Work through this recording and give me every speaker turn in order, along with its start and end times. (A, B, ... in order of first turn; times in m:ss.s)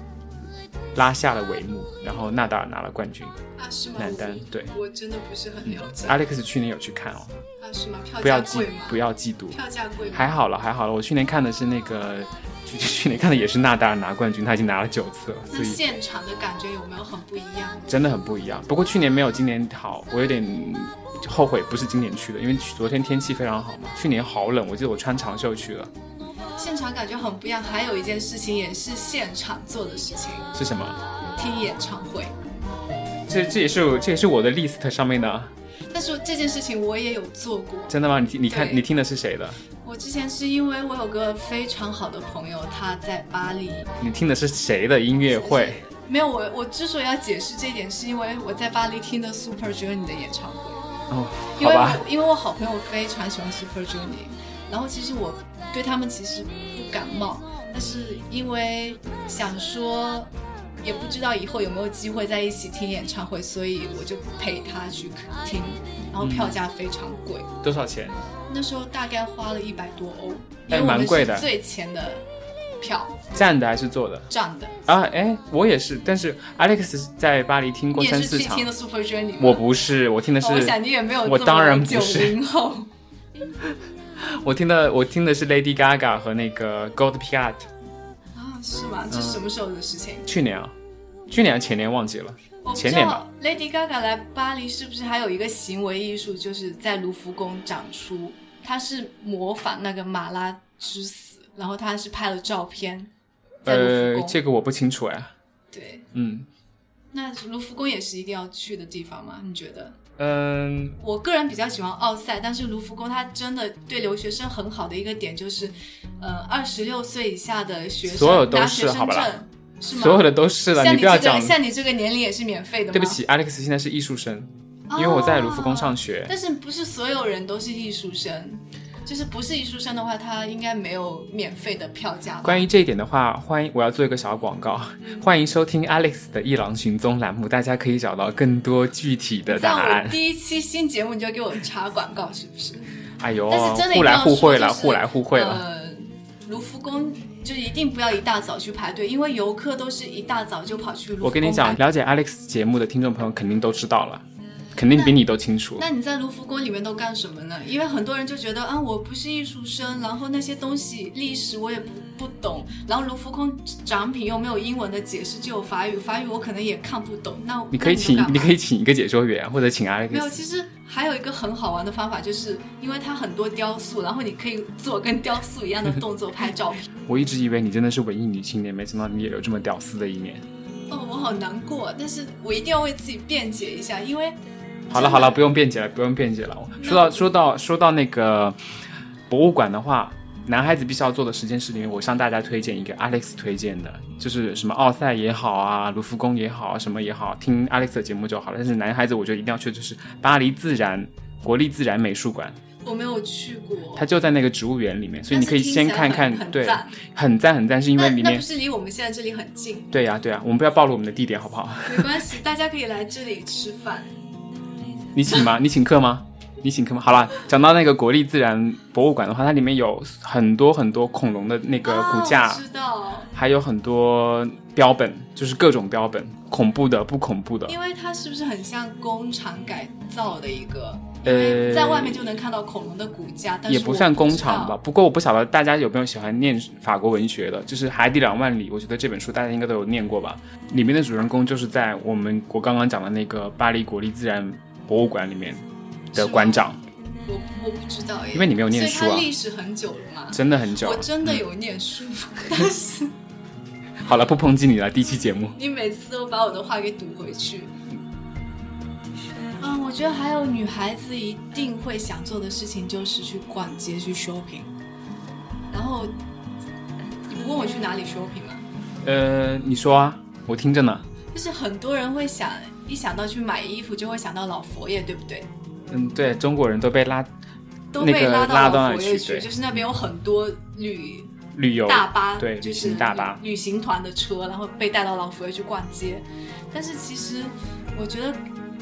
0:00.9-0:03.4 A
0:03.6-0:06.2 B
0:04.0-0:04.7 A
0:05.6-0:07.3 A
0:07.6-0:09.0 B
0:08.2-0:09.6 A
0:09.5-0:10.3 B
0:10.1-0:15.8 A
0:15.5-0:17.8 B
0:17.9-0:25.9 A
0:26.6-0:30.5 B
0:30.5-0:31.0 A
0:31.4-0:32.3 B
0:33.3-0:35.5 A
0:35.9-0:37.9 B
0:37.9-0:39.6 A
0:38.5-0:38.8 B
0:39.8-0:43.9 B
0:44.0-0:45.8 A
0:45.3-0:50.8 B
0:51.1-0:52.0 A
0:51.6-1:00.3 B
1:00.8-1:07.5 B
1:06.2-1:06.6 A
1:07.6-1:08.2 A
1:08.5-1:12.2 B
1:10.7-1:11.4 A
1:12.8-1:13.2 B
1:13.3-1:14.3 A
1:14.3-1:14.8 B
1:14.8-1:18.7 A
1:17.9-1:19.6 B
1:19.4-1:22.4 A
1:20.4-1:22.9 B
1:24.2-1:27.7 A
1:28.3-1:30.2 B
1:29.1-1:29.4 A
1:30.3-1:30.7 A
1:31.3-1:33.2 A
1:32.6-1:43.1 B
1:43.6-1:44.4 B
1:43.6-1:45.3 A
1:45.7-1:46.0 B
1:46.1-1:46.5 A
1:47.1-1:50.0 B
1:50.2-1:51.0 A
1:51.0-2:03.2 B
1:58.0-2:01.6 A
2:02.9-2:06.3 A
2:04.9-2:12.7 B
2:12.4-2:20.2 A
2:15.0-2:15.3 B
2:19.5-2:22.8 B
2:23.2-2:25.6 A
2:23.5-2:31.8 B
2:31.2-2:35.8 A
2:35.8-2:48.5 B
2:47.7-2:50.4 A
2:50.1-2:56.9 B
2:57.0-3:00.4 A
3:00.9-3:04.4 B
3:04.9-3:08.6 A
3:04.9-3:05.4 B
3:06.8-3:07.3 B
3:09.3-3:22.6 A
3:22.8-3:24.1 B
3:24.0-3:28.4 A
3:25.3-3:27.0 B
3:28.0-3:29.9 B
3:29.9-3:32.2 A
3:31.8-3:34.1 B
3:35.1-3:42.6 A
3:41.8-3:43.3 B
3:43.3-3:47.8 A
3:47.6-3:54.8 B
3:51.2-3:52.3 A
3:53.7-4:06.8 A
4:06.1-4:06.6 B
4:07.2-4:13.1 B
4:08.3-4:09.3 A
4:10.3-4:11.4 A
4:14.0-4:15.6 A
4:15.6-4:17.7 B
4:19.6-4:24.7 B
4:25.7-4:26.1 B
4:27.3-4:28.6 B
4:29.0-4:31.0 A
4:31.3-4:35.5 B
4:35.9-4:37.3 A
4:37.9-4:41.3 B
4:38.0-4:39.5 A
4:41.5-4:43.4 A
4:41.8-4:48.4 B